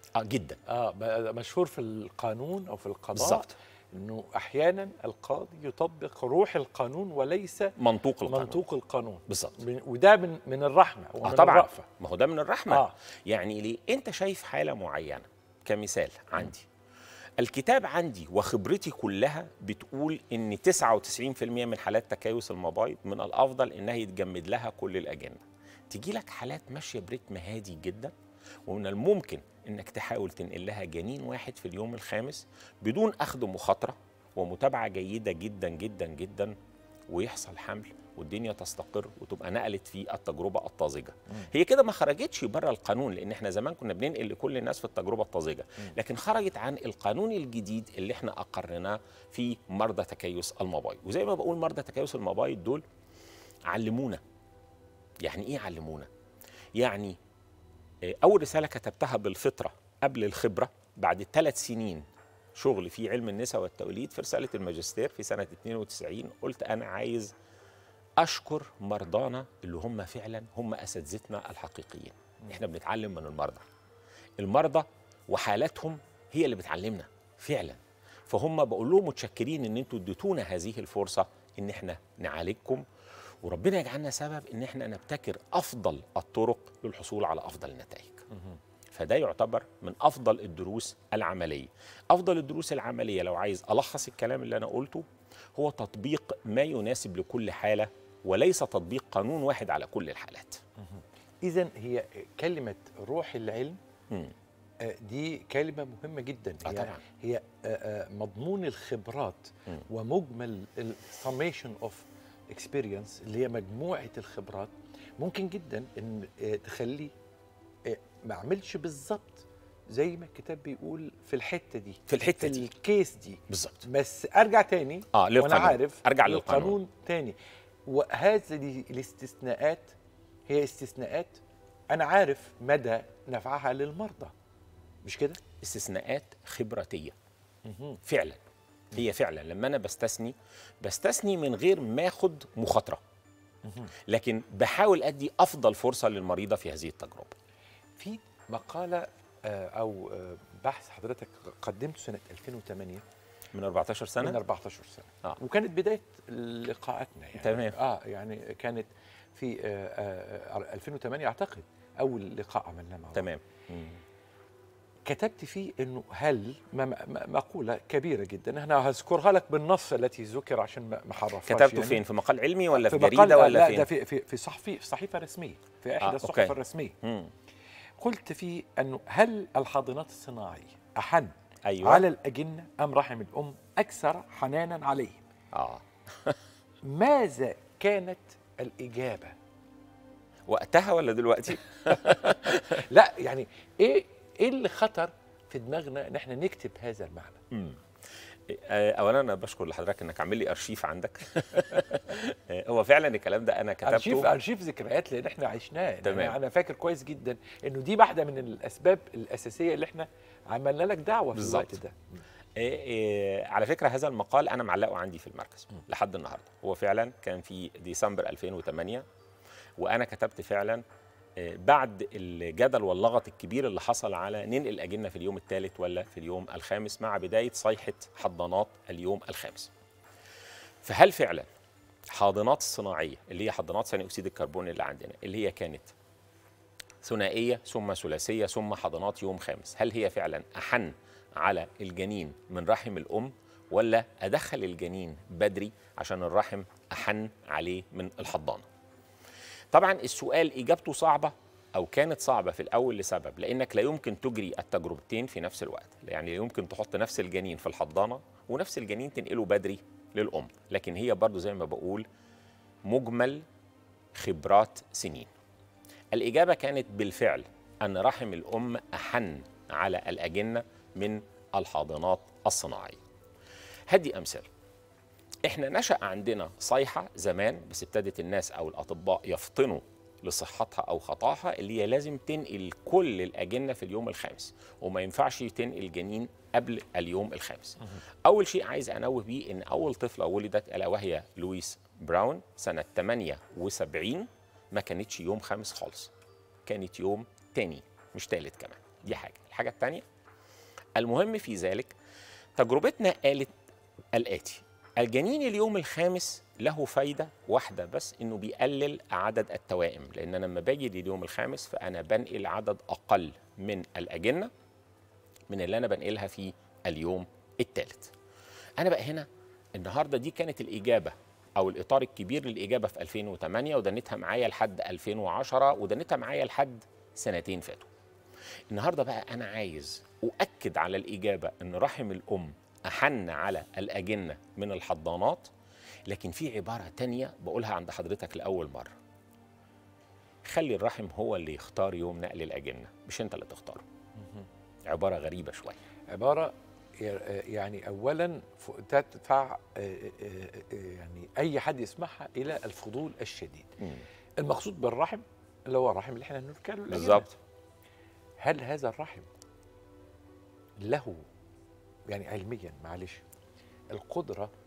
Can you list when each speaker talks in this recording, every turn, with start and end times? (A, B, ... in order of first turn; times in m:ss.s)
0:00.2-0:00.6 A
0:00.7-0:07.8 B
0:03.2-0:03.5 A
0:07.8-0:08.6 A
0:08.3-0:11.9 B
0:09.3-0:09.6 A
0:11.2-0:16.7 A
0:12.7-0:12.9 B
0:17.4-0:28.1 A
0:28.7-0:36.6 A
0:37.1-0:52.8 A
0:53.7-0:54.2 A
0:55.2-0:56.1 A
0:56.8-0:57.2 A
0:58.1-1:07.3 A
1:08.2-1:13.6 A
1:14.4-1:22.8 A
1:23.4-1:28.2 A
1:28.9-1:40.6 A
1:40.8-1:43.8 B
1:44.1-1:44.4 A
1:44.8-1:57.1 B
1:46.6-1:47.0 A
1:57.8-2:10.0 B
2:02.1-2:02.7 A
2:03.5-2:03.8 A
2:05.1-2:06.8 A
2:10.5-2:14.3 B
2:15.0-2:15.4 B
2:15.6-2:17.2 A
2:17.7-2:18.0 B
2:18.0-2:18.4 A
2:18.9-2:23.0 A
2:23.6-2:23.9 B
2:24.1-2:27.3 A
2:28.0-2:33.0 B
2:33.5-2:34.4 A
2:34.2-2:43.3 B
2:37.4-2:37.8 A
2:43.2-2:44.0 A
2:45.1-2:52.0 B
2:51.5-2:53.9 A
2:52.7-2:57.0 B
2:56.0-2:57.3 A
2:58.0-3:05.2 B
3:01.6-3:02.1 A
3:05.5-3:06.4 A
3:06.8-3:09.4 B
3:10.5-3:12.8 A
3:11.9-3:17.4 B
3:17.5-3:17.8 A
3:18.5-3:24.3 A
3:23.8-3:32.0 B
3:26.0-3:26.4 A
3:31.4-3:31.8 A
3:32.6-3:39.1 A
3:39.8-3:40.8 A
3:41.4-3:49.7 A
3:50.8-3:51.5 A
3:52.1-3:55.9 A
3:57.0-4:08.7 A
4:09.7-4:22.0 A
4:22.9-4:23.5 A
4:24.2-4:25.3 A
4:26.1-4:33.0 A
4:33.9-4:34.5 A
4:35.5-4:56.1 A
4:56.7-5:00.0 A
5:01.0-5:02.0 A
5:02.6-5:03.6 A
5:04.1-5:14.5 A
5:15.5-5:18.1 A
5:18.8-5:27.9 A
5:28.7-5:35.5 A
5:36.1-5:38.9 A
5:40.4-5:43.8 A
5:44.8-5:45.8 A
5:46.1-5:53.8 B
5:53.8-5:54.0 A
5:54.4-5:57.4 B
5:56.9-5:57.3 A
5:58.4-5:59.3 B
6:00.8-6:01.3 B
6:02.1-6:03.2 B
6:03.9-6:04.5 B